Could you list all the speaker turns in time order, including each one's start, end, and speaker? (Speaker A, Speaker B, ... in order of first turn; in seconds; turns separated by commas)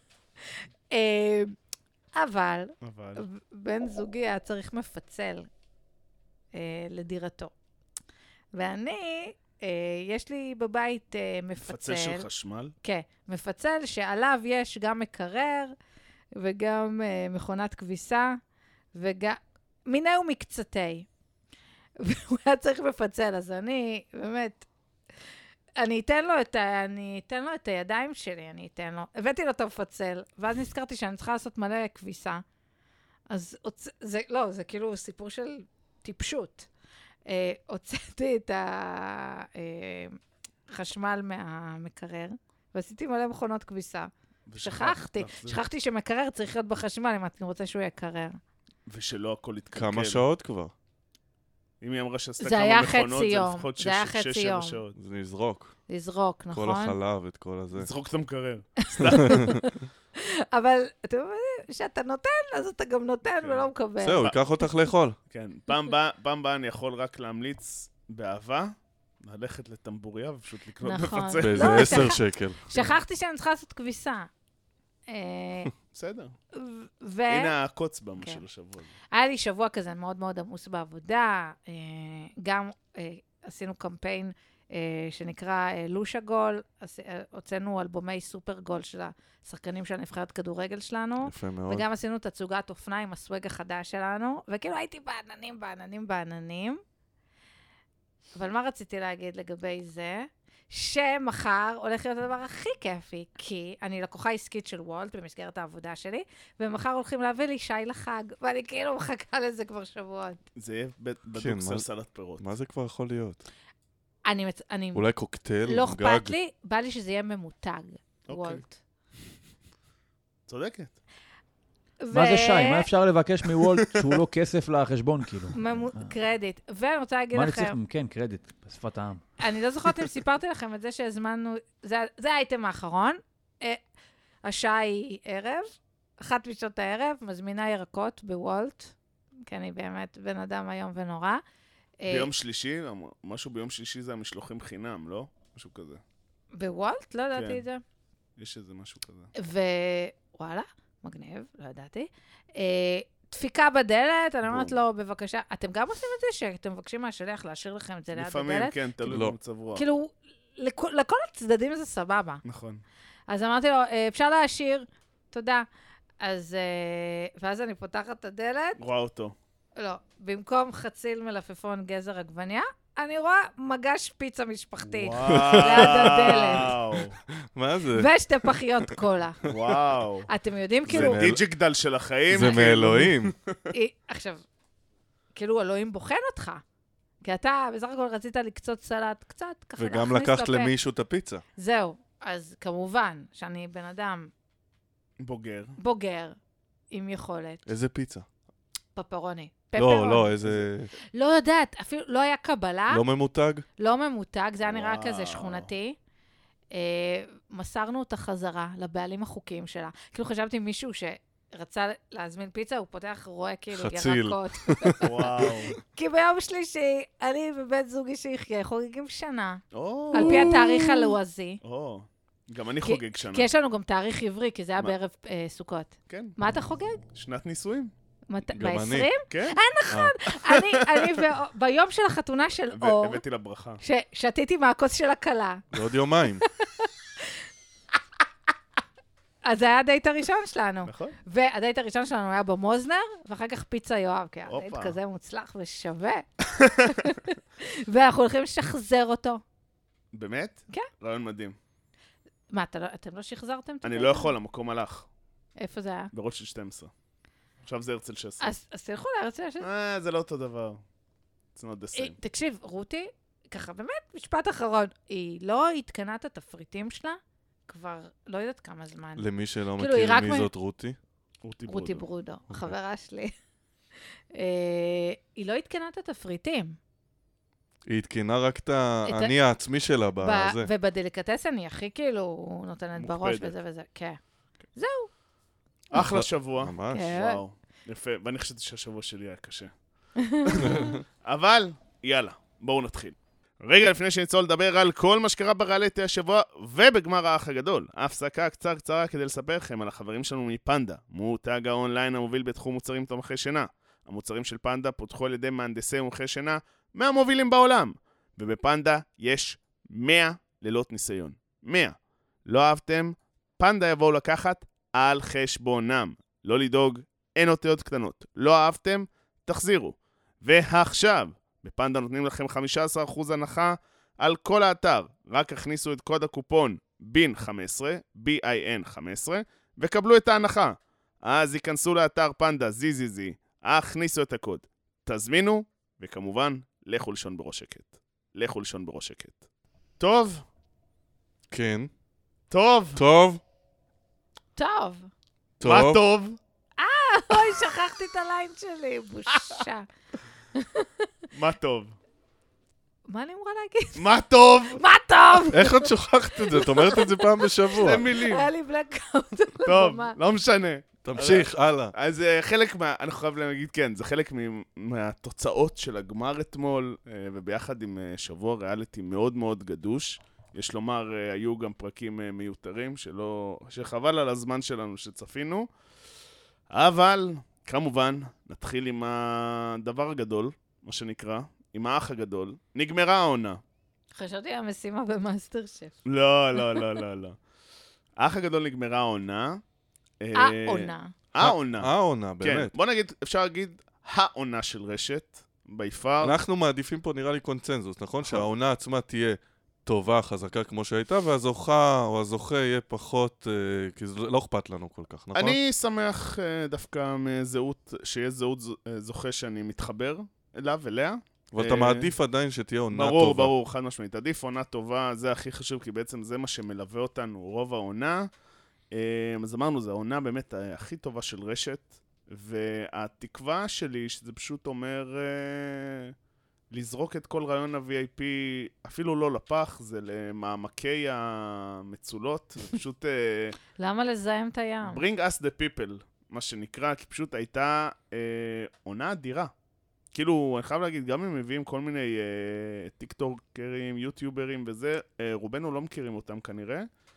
Speaker A: 0.4-1.6, Speaker A: 2.1-5.5, Speaker B: 2.8-3.2, Speaker A: 6.5-7.5, Speaker A: 8.5-12.3, Speaker B: 11.7-12.7, Speaker A: 12.8-15.7, Speaker A: 16.4-18.4, Speaker A: 18.9-21.1, Speaker A: 22.0-24.7, Speaker A: 25.8-32.4, Speaker A: 33.3-36.7, Speaker A: 37.3-40.2, Speaker A: 40.7-48.4, Speaker B: 44.5-45.6, Speaker B: 48.9-50.2, Speaker C: 49.8-50.7, Speaker B: 51.8-55.0, Speaker A: 52.4-54.8, Speaker C: 55.0-55.7, Speaker A: 55.9-57.0, Speaker C: 56.5-57.9, Speaker B: 57.7-59.6, Speaker A: 58.9-64.7, Speaker C: 59.0-59.7, Speaker B: 63.4-63.7, Speaker C: 64.0-65.2, Speaker B: 65.3-72.1, Speaker A: 70.8-74.3, Speaker C: 71.4-72.6, Speaker A: 75.1-75.7, Speaker B: 75.9-76.3, Speaker A: 76.5-77.5, Speaker B: 77.3-78.9, Speaker A: 79.1-96.8, Speaker C: 91.2-91.8, Speaker A: 98.4-110.4, Speaker B: 110.6-112.5, Speaker C: 111.4-111.9, Speaker C: 112.4-113.4, Speaker A: 114.2-115.1, Speaker C: 115.0-116.3, Speaker A: 115.7-118.8, Speaker B: 118.3-118.6, Speaker B: 120.5-120.9, Speaker A: 122.0-122.9, Speaker D: 122.1-126.1, Speaker A: 125.5-127.8, Speaker D: 127.3-129.2, Speaker A: 129.4-133.8, Speaker A: 134.4-141.4, Speaker A: 142.0-142.3, Speaker B: 142.1-146.0, Speaker A: 146.5-147.8, Speaker B: 147.3-147.6, Speaker B: 148.4-149.3, Speaker A: 149.4-158.8, Speaker B: 154.4-154.8, Speaker B: 158.1-159.8, Speaker C: 159.1-159.3, Speaker A: 159.8-162.4, Speaker B: 162.4-162.8, Speaker A: 163.3-165.7, Speaker A: 166.2-168.8, Speaker B: 168.8-169.4, Speaker A: 169.8-176.8, Speaker B: 174.8-177.2, Speaker C: 175.2-176.7, Speaker C: 177.5-178.1, Speaker A: 177.9-179.4, Speaker B: 179.4-180.3, Speaker A: 180.3-181.3, Speaker C: 180.9-181.4, Speaker B: 180.9-183.6, Speaker C: 182.3-183.3, Speaker A: 183.7-184.4, Speaker A: 185.3-186.6, Speaker A: 187.2-190.7, Speaker C: 189.8-191.4, Speaker A: 191.6-194.3, Speaker B: 195.2-195.8, Speaker A: 195.8-196.4, Speaker A: 196.9-197.6, Speaker C: 197.7-198.3, Speaker A: 198.9-200.3, Speaker C: 199.8-200.9, Speaker A: 201.1-203.0, Speaker C: 202.9-203.7, Speaker A: 203.8-206.0, Speaker B: 204.6-205.7, Speaker A: 206.7-219.6, Speaker C: 213.7-215.5, Speaker B: 215.0-215.7, Speaker B: 219.7-223.5, Speaker A: 220.1-221.6, Speaker C: 220.2-220.4, Speaker A: 222.8-227.0, Speaker B: 226.1-226.4, Speaker B: 227.1-227.9, Speaker A: 228.3-233.2, Speaker C: 228.5-229.1, Speaker B: 229.3-229.6, Speaker C: 229.9-230.2, Speaker B: 230.6-231.2, Speaker B: 232.7-233.8, Speaker A: 233.8-235.7, Speaker C: 235.7-236.4, Speaker A: 236.4-237.4, Speaker A: 239.4-249.4, Speaker B: 240.8-241.2, Speaker B: 244.5-245.0, Speaker B: 246.5-247.0, Speaker B: 250.1-251.6, Speaker A: 252.5-254.3, Speaker B: 253.8-255.1, Speaker A: 255.6-256.1, Speaker B: 256.1-256.9, Speaker B: 257.6-258.4, Speaker A: 258.4-259.7, Speaker B: 259.6-260.8, Speaker B: 261.6-262.2, Speaker A: 261.9-270.5, Speaker C: 269.2-271.0, Speaker B: 271.4-272.1, Speaker A: 271.7-273.3, Speaker A: 274.3-276.8, Speaker C: 277.9-280.7, Speaker A: 279.1-279.3, Speaker A: 280.2-284.2, Speaker B: 283.0-283.6, Speaker A: 284.8-285.1, Speaker C: 285.9-287.2, Speaker B: 285.9-289.7, Speaker A: 286.9-287.4, Speaker A: 290.2-291.0, Speaker B: 290.4-339.4, Speaker C: 290.5-291.0, Speaker B: 340.0-340.4, Speaker C: 341.5-341.9, Speaker B: 342.5-343.0, Speaker C: 343.0-343.4, Speaker A: 344.6-345.1, Speaker C: 345.6-346.0, Speaker B: 345.6-346.4, Speaker A: 346.8-349.9, Speaker A: 350.6-351.1, Speaker B: 351.3-352.0, Speaker A: 353.1-354.1, Speaker B: 354.0-354.8, Speaker A: 354.8-360.2, Speaker C: 355.5-358.0, Speaker B: 357.8-358.5, Speaker B: 359.6-375.7, Speaker C: 361.0-361.9, Speaker B: 376.7-383.6, Speaker A: 384.1-386.0, Speaker B: 386.1-387.4, Speaker A: 386.6-386.9, Speaker B: 388.2-389.6, Speaker B: 390.2-396.4, Speaker A: 390.4-391.1, Speaker C: 391.4-392.7, Speaker C: 396.2-405.6, Speaker B: 405.4-412.1, Speaker C: 411.5-413.5, Speaker B: 412.9-418.3, Speaker B: 418.9-426.1, Speaker B: 426.7-433.6, Speaker A: 433.8-435.0, Speaker B: 434.8-439.5, Speaker B: 440.1-446.9